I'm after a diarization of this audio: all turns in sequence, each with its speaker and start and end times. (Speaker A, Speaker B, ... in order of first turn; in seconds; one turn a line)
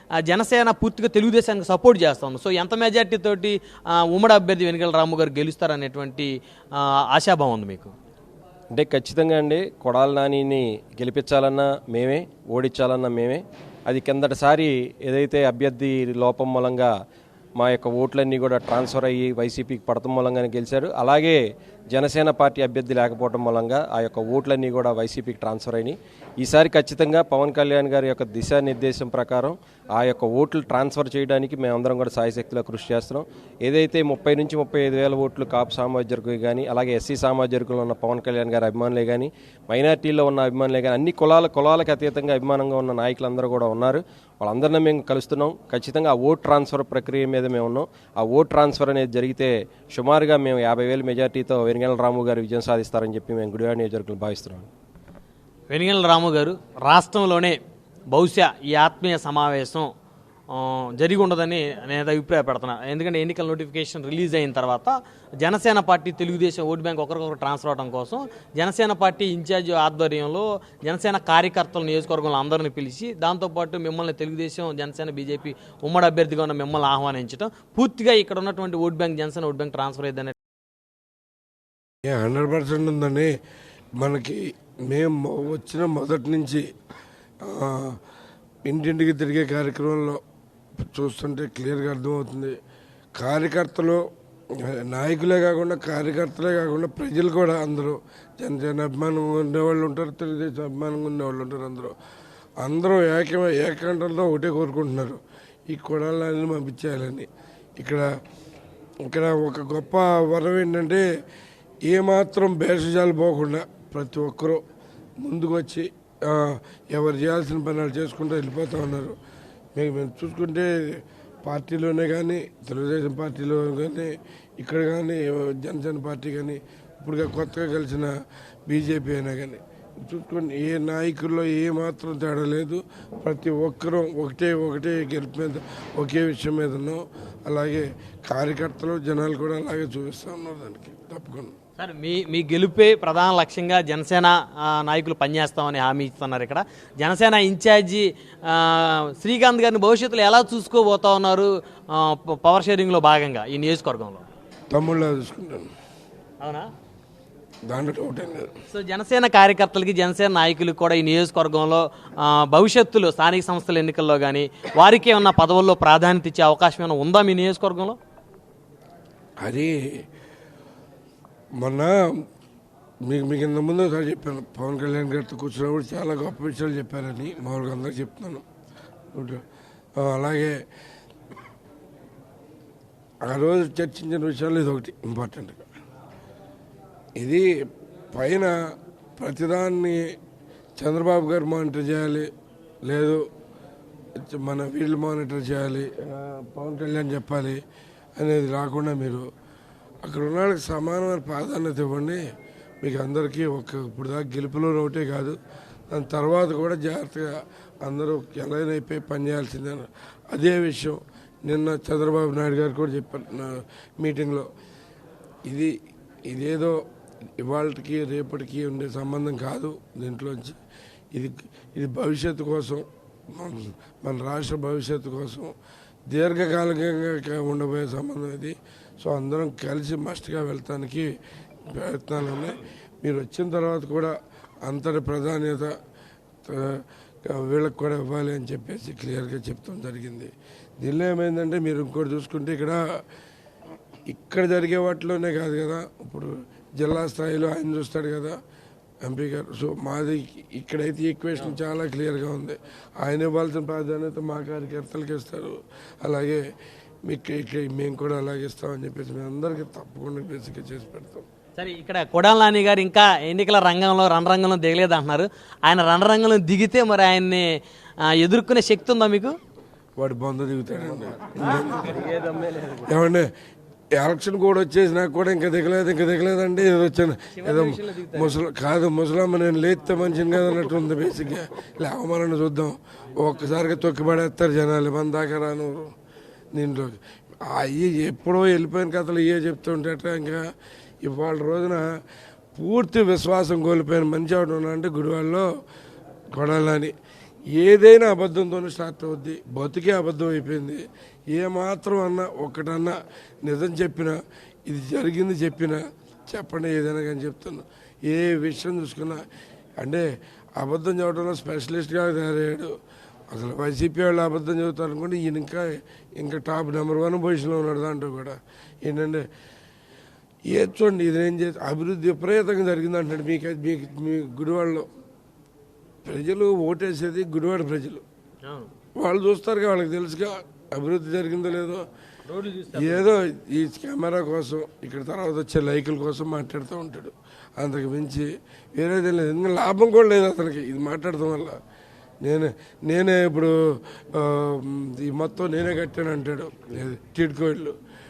Speaker A: 0.2-7.9
Speaker B: 8.8-16.9
Speaker B: 17.6-21.4
Speaker B: 21.9-54.7
Speaker A: 55.7-57.6
Speaker A: 58.1-59.9
Speaker A: 60.5-80.3
Speaker C: 82.0-83.3
Speaker C: 84.0-86.6
Speaker C: 87.4-88.0
Speaker C: 88.7-90.2
Speaker C: 90.8-92.6
Speaker C: 93.2-94.0
Speaker C: 94.6-101.9
Speaker C: 102.6-107.3
Speaker C: 107.8-108.0
Speaker C: 109.1-111.0
Speaker C: 111.8-114.6
Speaker C: 115.2-119.2
Speaker C: 119.8-128.1
Speaker C: 128.7-141.5
Speaker A: 141.8-154.3
Speaker C: 154.7-155.7
Speaker A: 156.4-156.7
Speaker C: 157.7-158.5
Speaker A: 158.7-168.0
Speaker C: 169.4-169.8
Speaker C: 171.6-172.2
Speaker C: 173.1-178.4
Speaker C: 179.1-179.4
Speaker C: 180.0-180.6
Speaker C: 183.3-185.7
Speaker C: 187.2-187.5
Speaker C: 188.1-188.6
Speaker C: 189.2-190.1
Speaker C: 190.8-192.3
Speaker C: 192.9-193.2
Speaker C: 194.2-197.6
Speaker C: 198.2-199.2
Speaker C: 200.0-202.2
Speaker C: 202.8-205.4
Speaker C: 205.9-214.5
Speaker C: 215.5-215.7
Speaker C: 216.3-216.8
Speaker C: 217.4-220.6
Speaker C: 221.1-225.5
Speaker C: 226.1-231.1
Speaker C: 231.7-234.1
Speaker C: 234.6-235.7
Speaker C: 236.5-242.8
Speaker C: 244.1-248.3
Speaker C: 249.0-256.4
Speaker C: 257.1-261.3
Speaker A: 261.6-267.5
Speaker A: 268.1-269.4
Speaker C: 270.0-272.0
Speaker B: 271.8-272.9
Speaker C: 272.9-273.3
Speaker C: 274.0-285.9
Speaker A: 277.4-278.3
Speaker C: 286.5-290.4
Speaker C: 291.0-291.9
Speaker C: 292.6-295.5
Speaker C: 296.3-296.9
Speaker C: 297.6-309.2
Speaker C: 310.6-312.7
Speaker C: 313.3-319.2
Speaker C: 320.5-324.9
Speaker C: 326.1-328.0
Speaker A: 328.4-328.7
Speaker C: 329.0-331.8
Speaker A: 332.3-333.1
Speaker C: 332.7-341.6
Speaker C: 342.2-347.7